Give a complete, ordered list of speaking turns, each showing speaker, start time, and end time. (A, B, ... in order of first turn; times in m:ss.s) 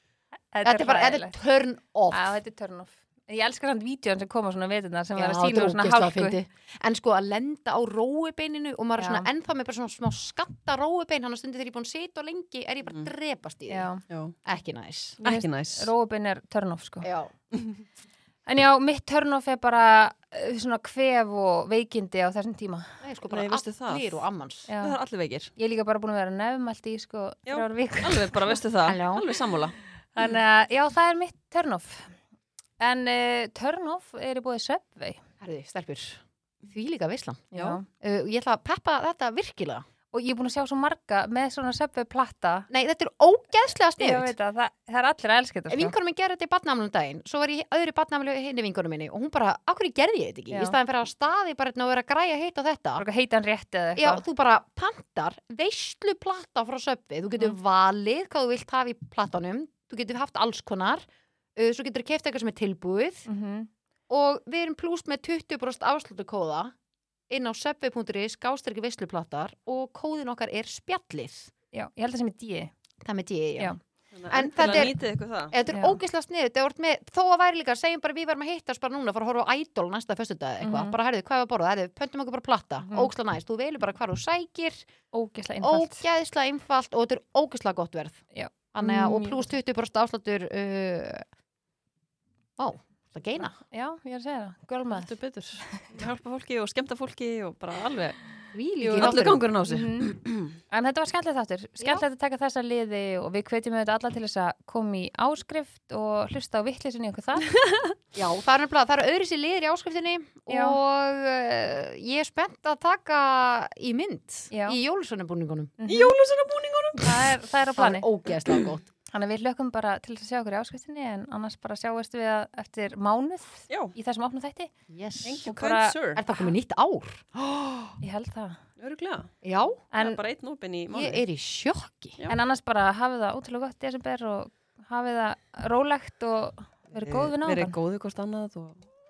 0:00.5-0:01.3 A
0:00.6-0:02.4 B
0:02.1-0:06.4 A
0:05.2-0:13.9 B
0:09.0-0:09.3 A
0:13.7-0:14.0 A
0:14.1-0:14.4 C
0:14.5-0:15.2 B
0:15.2-0:17.1 A
0:15.2-0:15.9 C
0:17.0-0:17.3 B
0:18.5-0:22.9 A
0:23.0-0:24.7 B
0:23.3-0:24.2 C
0:24.7-0:25.0 A
0:24.8-0:25.5 C
0:25.6-0:28.6 A
0:27.5-0:29.8 C
0:28.9-0:29.3 B
0:30.2-0:32.2 A
0:32.8-0:35.2 A
0:35.4-0:39.8 B
0:37.5-0:37.8 A
0:40.1-0:42.7 A
0:42.7-0:44.3 B
0:44.0-0:45.9 A
0:45.7-0:53.0 B
0:50.5-0:50.8 A
0:53.0-0:54.2 A
0:54.0-1:01.0 B
1:01.6-1:03.3 B
1:03.3-1:03.7 A
1:04.1-1:06.7 B
1:07.3-1:11.5 B
1:11.7-1:12.7 A
1:13.0-1:13.8 B
1:14.1-1:15.5 C
1:14.3-1:24.9 B
1:15.7-1:16.0 A
1:20.6-1:21.0 A
1:22.8-1:23.1 A
1:25.1-1:26.0 A
1:25.6-1:31.2 B
1:28.3-1:29.6 A
1:32.6-1:33.6 B
1:33.6-1:35.9 A
1:34.9-1:40.6 C
1:38.5-1:39.4 B
1:39.0-1:40.1 A
1:40.7-1:47.5 A
1:47.5-1:48.0 C
1:48.2-1:55.8 B
1:50.5-1:50.8 A
1:54.5-1:54.8 A
1:55.8-1:56.1 A
1:55.9-1:57.2 C
1:57.0-1:58.1 A
1:57.8-1:58.9 B
1:59.1-2:04.7 A
2:03.7-2:03.9 C
2:04.9-2:05.4 B
2:05.2-2:06.2 C
2:05.4-2:06.0 A
2:06.2-2:08.0 B
2:08.0-2:08.6 A
2:08.8-2:09.3 C
2:09.4-2:09.8 B
2:09.9-2:10.2 A
2:10.0-2:11.2 C
2:10.9-2:12.2 B
2:12.3-2:17.8 A
2:17.0-2:18.9 C